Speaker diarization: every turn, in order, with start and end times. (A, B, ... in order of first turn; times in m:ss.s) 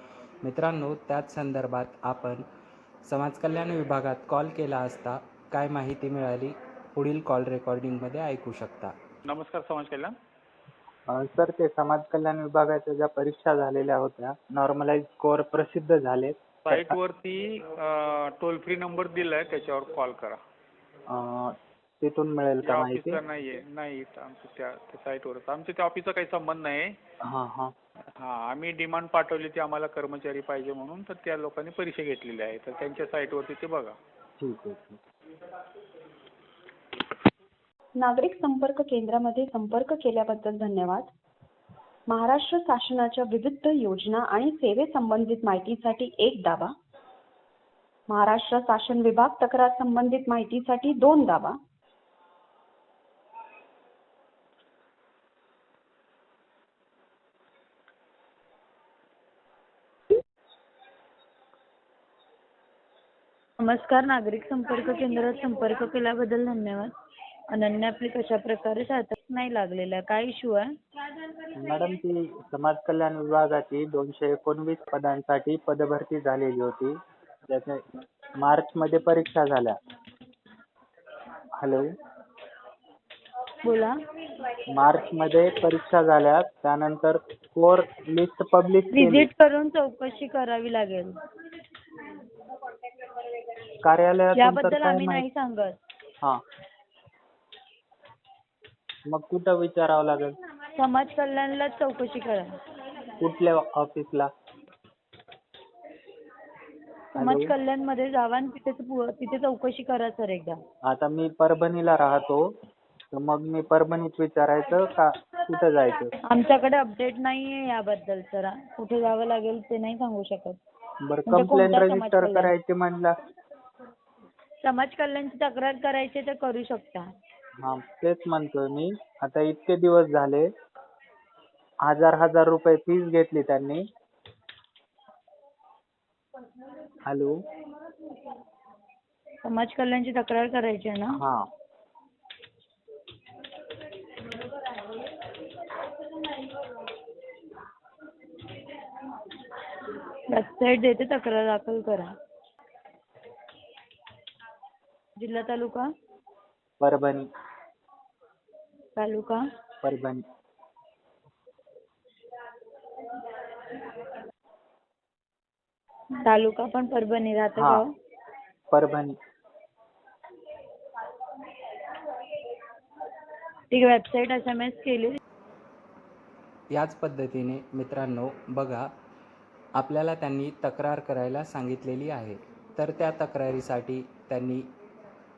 0:00.4-0:02.4 A
0:03.0-0:08.9 A
0:09.3-0:10.1 B
0:11.1-0:17.0 C
0:16.7-0:20.4 B
0:21.1-0:23.2 C
0:22.6-0:27.0 B
0:27.2-0:27.7 C
0:28.2-0:34.0 B
0:34.4-0:35.0 C
0:38.0-0:41.1 D
0:42.1-0:46.7 D
0:48.1-0:51.6 D
1:03.6-1:06.9 E
1:07.5-1:10.7 E
1:11.5-1:17.9 C
1:18.4-1:19.8 C
1:21.6-1:21.9 C
1:23.6-1:24.0 E
1:24.7-1:29.3 C
1:28.9-1:31.1 E
1:33.8-1:35.2 C
1:34.3-1:35.8 E
1:39.1-1:40.4 C
1:40.8-1:42.5 E
1:43.2-1:44.3 C
1:47.2-1:50.6 E
1:47.2-1:47.5 C
1:50.9-1:52.5 C
1:53.1-1:56.1 C
1:56.3-2:00.6 E
2:01.0-2:03.1 C
2:01.3-2:02.5 E
2:04.6-2:07.1 E
2:07.6-2:10.5 C
2:11.8-2:13.8 C
2:17.0-2:17.4 C
2:19.4-2:21.2 E
2:21.1-2:21.5 C
2:30.3-2:32.1 E
2:35.2-2:35.9 E
2:36.8-2:37.3 C
2:39.0-2:39.4 E
2:39.8-2:40.2 C
2:46.2-2:47.9 E
2:47.6-2:47.8 C
2:48.7-2:49.2 C
2:53.7-2:55.2 E
2:56.7-2:58.9 A
2:59.8-3:04.7 A